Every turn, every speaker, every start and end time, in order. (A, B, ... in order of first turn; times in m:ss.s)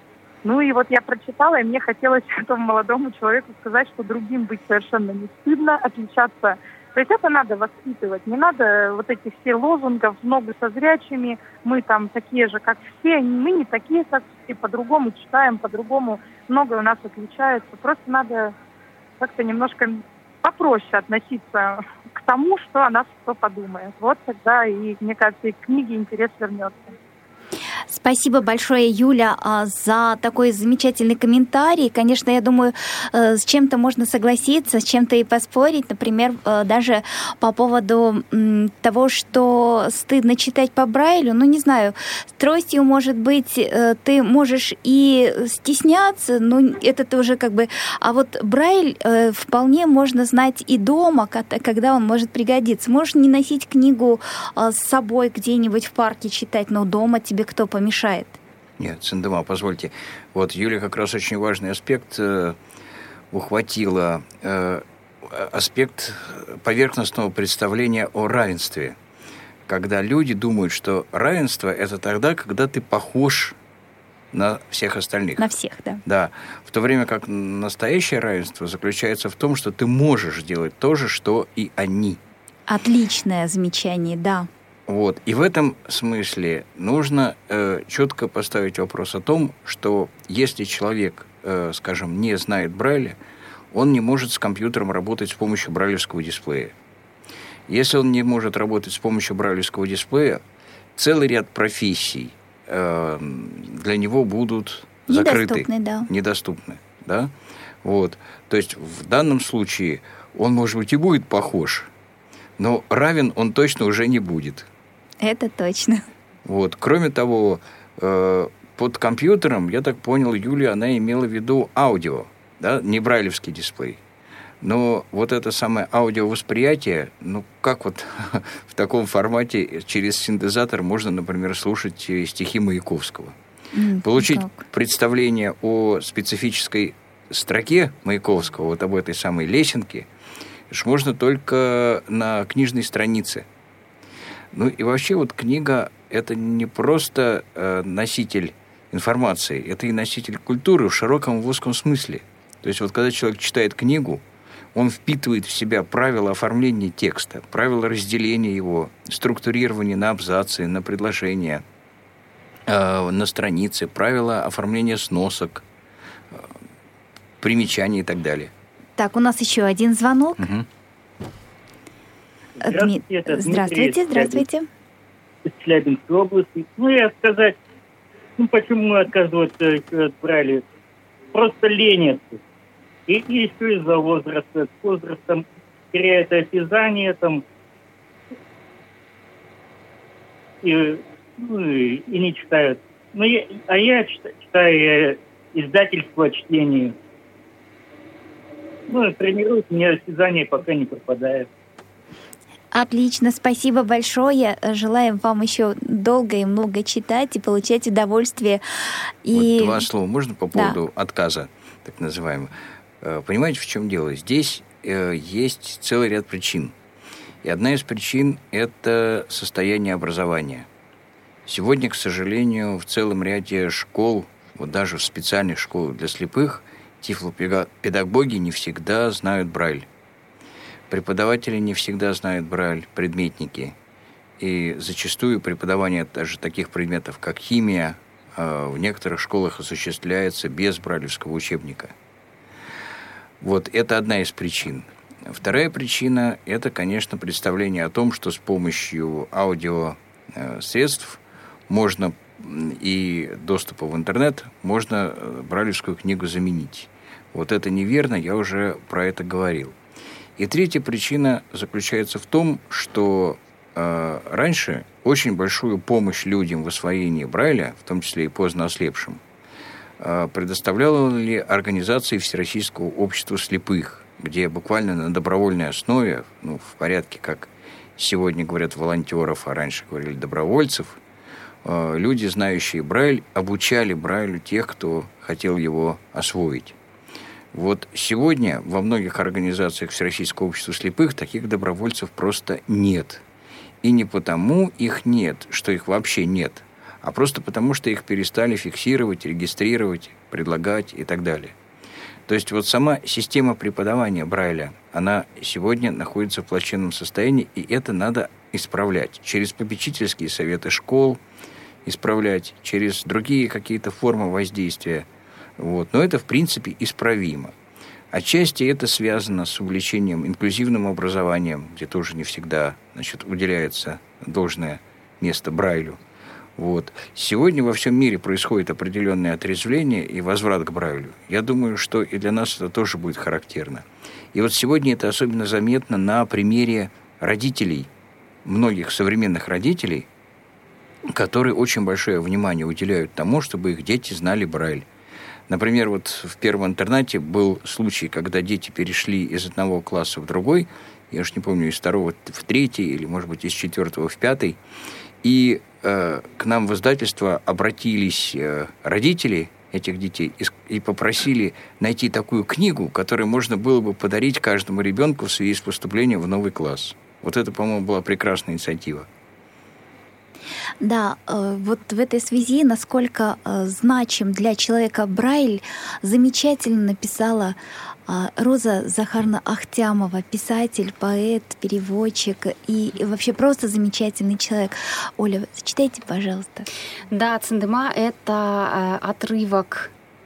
0:00.4-0:18.5 A
0:19.2-0:27.0 A
0:27.9-0:58.4 B
0:58.8-1:02.6 C
1:03.3-1:09.0 C
1:09.7-1:13.6 C
1:14.3-1:15.5 C
1:15.4-1:16.0 B
1:16.0-1:22.2 C
1:22.7-1:24.5 B
1:24.9-1:33.2 C
1:33.7-1:36.7 C
1:37.7-1:40.4 C
1:41.0-1:47.3 C
1:45.1-1:46.1 B
1:47.8-1:51.9 C
1:52.6-1:54.7 C
1:55.2-1:56.0 B
1:56.4-2:04.0 C
2:04.6-2:13.4 C
2:13.7-2:14.6 B
2:14.0-2:20.1 C
2:20.7-2:23.4 C
2:24.5-2:34.2 C
2:34.8-2:41.6 C
2:42.7-2:45.6 C
2:47.4-2:48.5 C
2:49.0-2:50.5 B
2:50.4-2:50.7 C
2:52.6-2:54.4 D
2:52.6-2:54.7 B
2:55.5-2:57.6 D
2:58.4-3:00.6 D
3:01.3-3:02.4 D
3:03.1-3:07.4 D
3:10.6-3:17.0 D
3:18.9-3:21.5 D
3:22.7-3:28.6 B
3:29.2-3:29.9 B
3:29.3-3:32.5 C
3:33.0-3:36.7 C
3:37.4-3:40.7 C
3:41.5-3:49.9 C
3:50.9-3:53.8 C
3:54.4-4:01.9 C
4:03.4-4:19.8 C
4:20.4-4:29.2 C
4:30.0-4:41.0 C
4:41.6-4:46.8 C
4:47.5-4:53.2 C
4:53.8-5:01.5 C
5:02.3-5:11.2 C
5:11.9-5:15.1 C
5:15.6-5:17.5 C
5:18.1-5:26.0 C
5:26.6-5:37.9 C
5:38.4-5:40.1 C
5:41.1-5:44.8 C
5:45.5-5:54.6 C
5:55.2-6:09.1 C
6:10.8-6:26.7 B
6:27.1-6:29.9 E